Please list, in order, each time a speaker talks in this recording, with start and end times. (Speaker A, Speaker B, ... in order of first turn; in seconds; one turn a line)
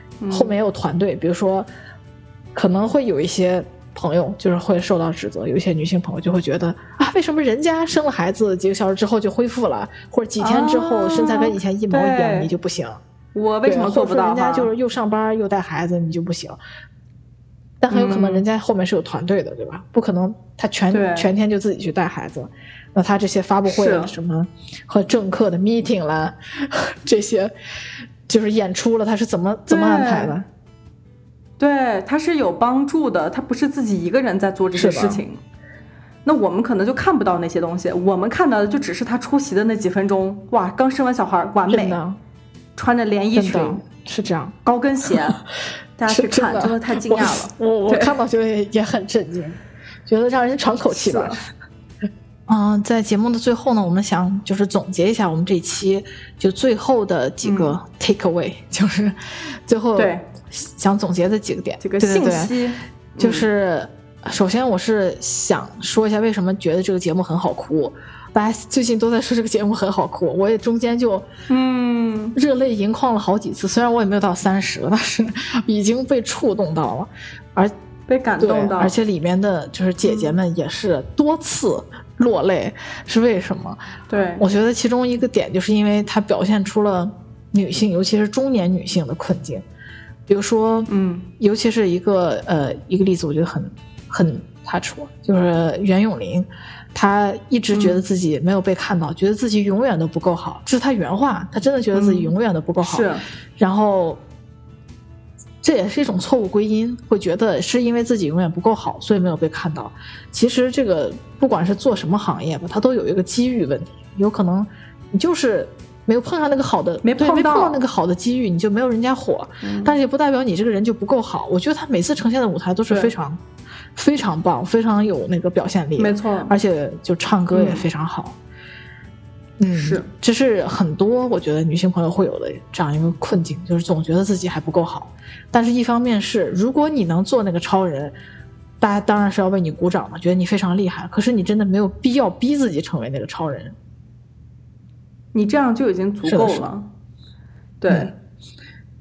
Speaker A: 0.2-0.6
Speaker B: 0.3-1.7
Speaker B: 2.5-13.0
Speaker A: 10.4-12.5
Speaker A: 13.3-14.7
Speaker B: 13.7-16.6
Speaker B: 17.8-27.5
Speaker A: 17.9-18.4
Speaker A: 20.9-21.3
Speaker A: 23.6-24.1
Speaker B: 28.3-30.4
Speaker A: 29.7-30.3
Speaker A: 31.6-35.4
Speaker B: 34.7-35.2
Speaker A: 36.2-42.0
Speaker B: 41.7-42.2
Speaker A: 42.8-43.8
Speaker B: 43.3-44.5
Speaker A: 44.6-45.4
Speaker A: 46.0-48.1
Speaker B: 46.1-51.4
Speaker A: 50.9-51.4
Speaker B: 52.5-62.5
Speaker A: 57.4-57.8
Speaker A: 60.0-60.2
Speaker A: 61.8-63.5
Speaker B: 63.2-71.3
Speaker A: 71.5-72.4
Speaker B: 72.3-77.7
Speaker A: 78.1-79.0
Speaker B: 78.4-83.8
Speaker A: 80.0-80.3
Speaker A: 84.1-84.4
Speaker B: 84.4-89.6
Speaker B: 90.3-104.2
Speaker A: 90.9-91.3
Speaker A: 97.7-98.0
Speaker A: 101.9-103.2
Speaker B: 105.6-123.4
Speaker A: 117.0-117.8
Speaker A: 119.6-119.9
Speaker B: 124.0-128.3
Speaker A: 126.0-126.5
Speaker A: 127.5-127.8
Speaker B: 129.6-138.1
Speaker A: 129.7-130.1
Speaker B: 138.8-143.8
Speaker A: 145.3-146.9
Speaker B: 146.2-146.7
Speaker A: 147.8-148.1